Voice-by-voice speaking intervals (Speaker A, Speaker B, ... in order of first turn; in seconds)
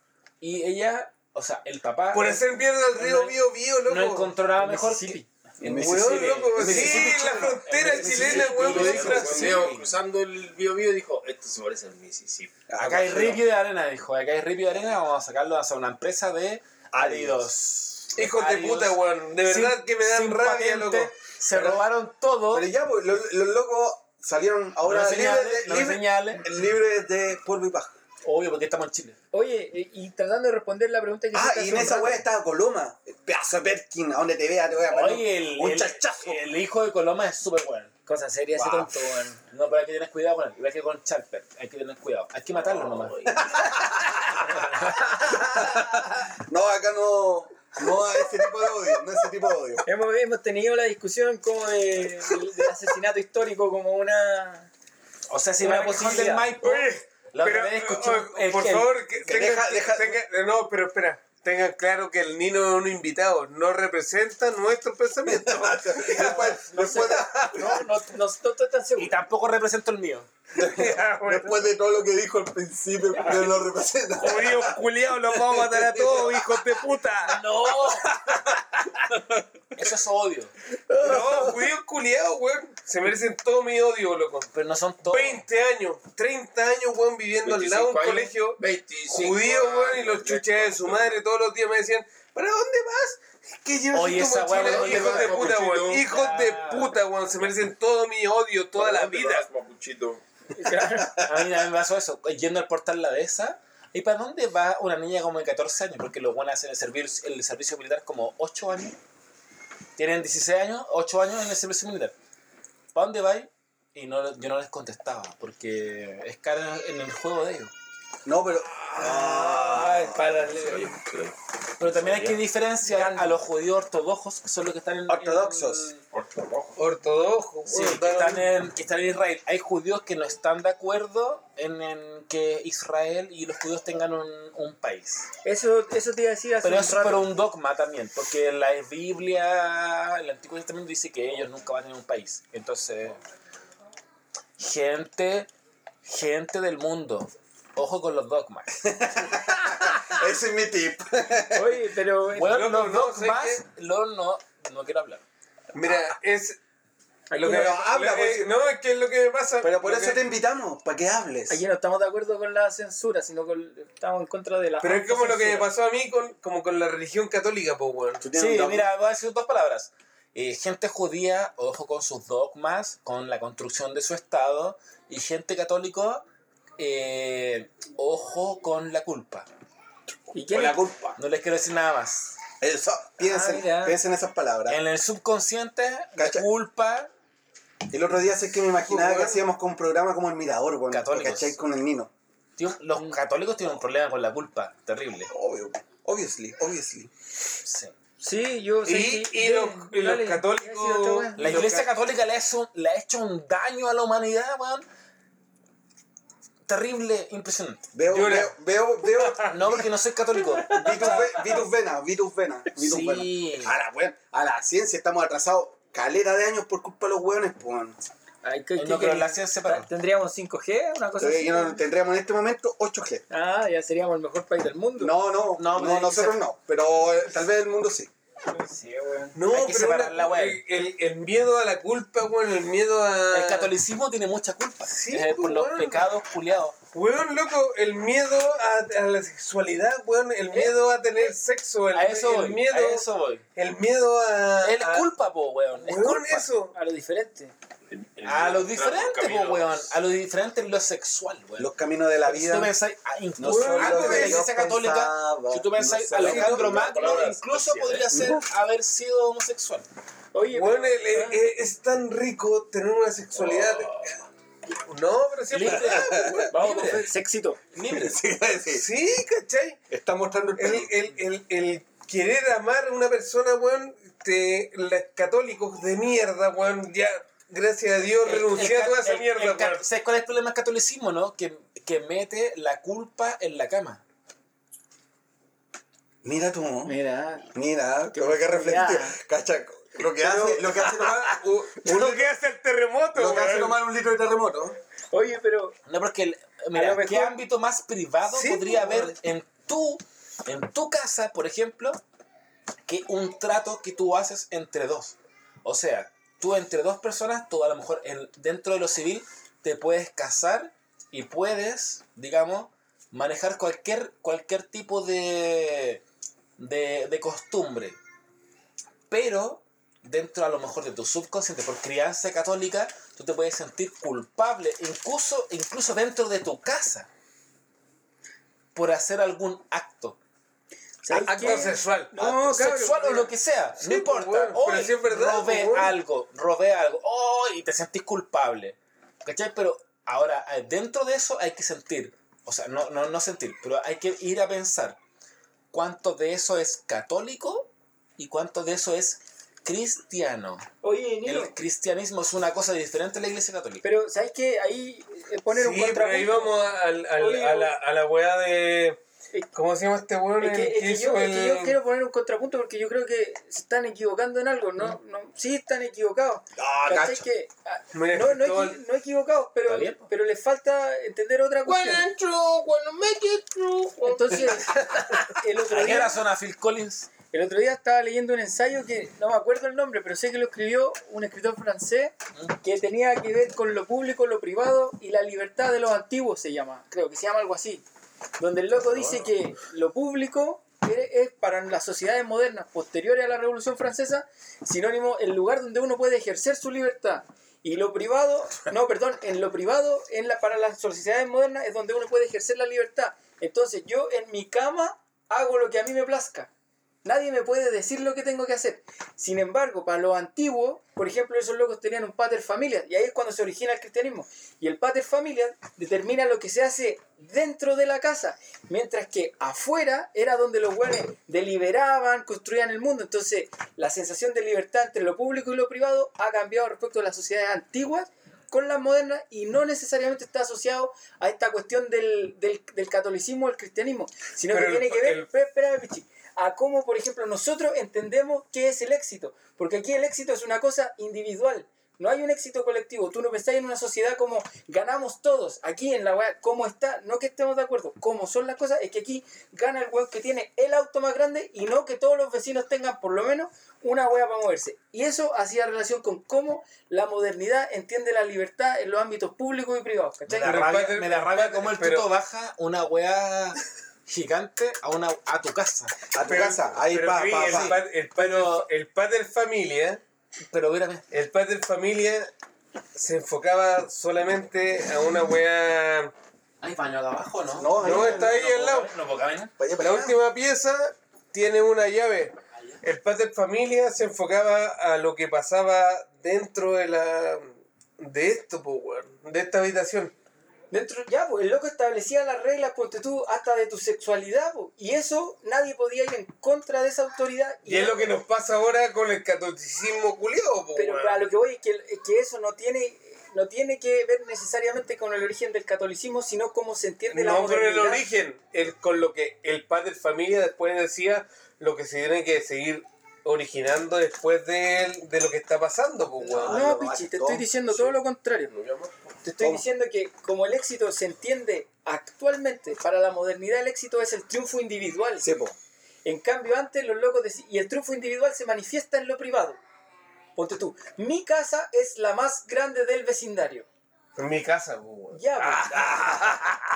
Speaker A: 0.4-2.4, 3.0-10.0, 12.8-22.7, 24.8-26.4, 28.2-29.2, 34.9-43.3, 44.6-45.4, 55.3-58.9, 69.0-70.3, 77.2-78.1, 79.7-80.5, 84.5-85.4, 93.9-96.9, 101.2-109.0, 110.0-112.1, 112.9-117.7, 121.8-126.0, 127.7-135.3, 136.6-143.2, 144.6-145.5, 146.0-148.7, 152.3-155.2, 168.3-176.2, 176.8-179.5, 180.6-182.3, 184.7-187.1, 190.9-191.6, 192.6-195.3, 197.6-197.9, 201.3-204.8, 206.7-207.9, 209.5-211.3, 212.8-213.8, 218.8-219.9, 225.6-226.4, 229.0-230.6, 233.3-236.8, 241.9-243.4, 244.6-246.5, 248.2-251.7, 252.2-259.9, 265.5-267.1, 267.7-268.2, 278.2-284.0, 295.9-302.0, 302.9-316.0, 316.6-318.0, 319.1-327.1, 328.7-330.2, 331.1-345.0, 345.7-350.6, 351.2-353.9, 369.7-370.1, 375.6-377.1, 388.8-389.1, 460.3-465.9, 467.3-468.7, 470.5-471.0, 476.6-479.5
Speaker B: 2.1-4.3, 5.7-9.7, 18.1-21.2, 56.6-67.8, 70.6-71.7, 74.2-77.4, 81.0-84.5, 85.0-93.2, 94.0-99.5, 119.6-120.7, 126.8-128.5, 152.4-153.6, 155.7-156.6, 157.4-160.2, 164.8-168.2, 188.9-189.4, 198.8-201.9, 208.1-208.5, 209.0-209.7, 229.3-233.7, 234.9-236.1, 236.9-245.1, 245.7-246.7, 253.4-254.5, 256.2-256.6, 260.5-264.0, 264.9-266.5, 268.7-269.8, 270.6-279.8, 290.2-293.8, 298.3-299.1, 331.1-332.1, 333.8-335.9, 355.5-359.0, 359.5-361.8, 367.9-368.8, 371.6-375.2, 434.5-435.3, 460.4-462.1, 466.2-470.0, 471.1-472.3, 472.9-476.1, 477.8-478.9, 479.8-490.1, 497.6-501.2, 507.1-516.6, 534.2-536.7
Speaker C: 4.6-5.2, 29.3-32.2, 38.1-39.4, 49.8-54.7, 55.6-56.5, 66.5-69.2, 100.5-101.2, 122.9-123.3, 135.4-137.3, 151.5-152.6, 157.3-157.8, 161.5-165.7, 180.3-180.9, 183.2-184.0, 198.2-201.7, 210.7-211.2, 218.4-221.8, 223.3-225.2, 228.7-229.3, 246.7-247.5, 260.3-261.4, 266.5-267.6, 286.9-287.5, 288.1-289.2, 295.1-295.8, 296.7-297.4, 331.0-333.3, 350.8-351.5, 353.8-357.7, 360.4-372.1, 374.0-374.8, 375.3-376.2, 377.3-387.8, 388.4-406.5, 407.0-460.6, 490.7-498.1, 500.8-508.0, 516.4-518.5, 519.2-525.3, 526.0-529.6, 530.4-533.7, 535.1-535.9
Speaker D: 5.6-8.0, 12.7-13.4, 16.9-17.5, 21.5-21.8, 22.5-27.9, 31.3-36.4, 43.4-49.8, 59.2-60.2, 65.2-67.7, 70.6-74.7, 75.3-76.3, 80.9-81.5, 93.6-94.6, 100.8-101.4, 118.2-120.3, 125.1-125.9, 148.8-151.8, 157.4-158.6, 159.6-161.6, 168.2-168.9, 180.5-181.1, 182.6-184.8, 186.2-186.5, 187.9-192.1, 195.3-197.1, 207.9-209.8, 210.7-218.0, 221.2-223.2, 225.0-228.1, 251.6-252.7, 253.4-257.0, 258.1-258.4, 265.8-266.4, 267.9-268.8, 269.9-270.9, 286.2-286.9, 287.5-292.3, 293.1-294.8, 366.6-367.2, 466.1-467.8, 477.5-478.3, 479.6-480.2, 516.2-517.6, 525.2-525.5
Speaker E: 8.0-12.6, 42.5-43.4, 87.4-91.2, 94.6-96.0, 98.8-100.2, 119.8-122.5, 126.1-126.7, 247.9-249.9, 256.2-258.1, 518.5-519.0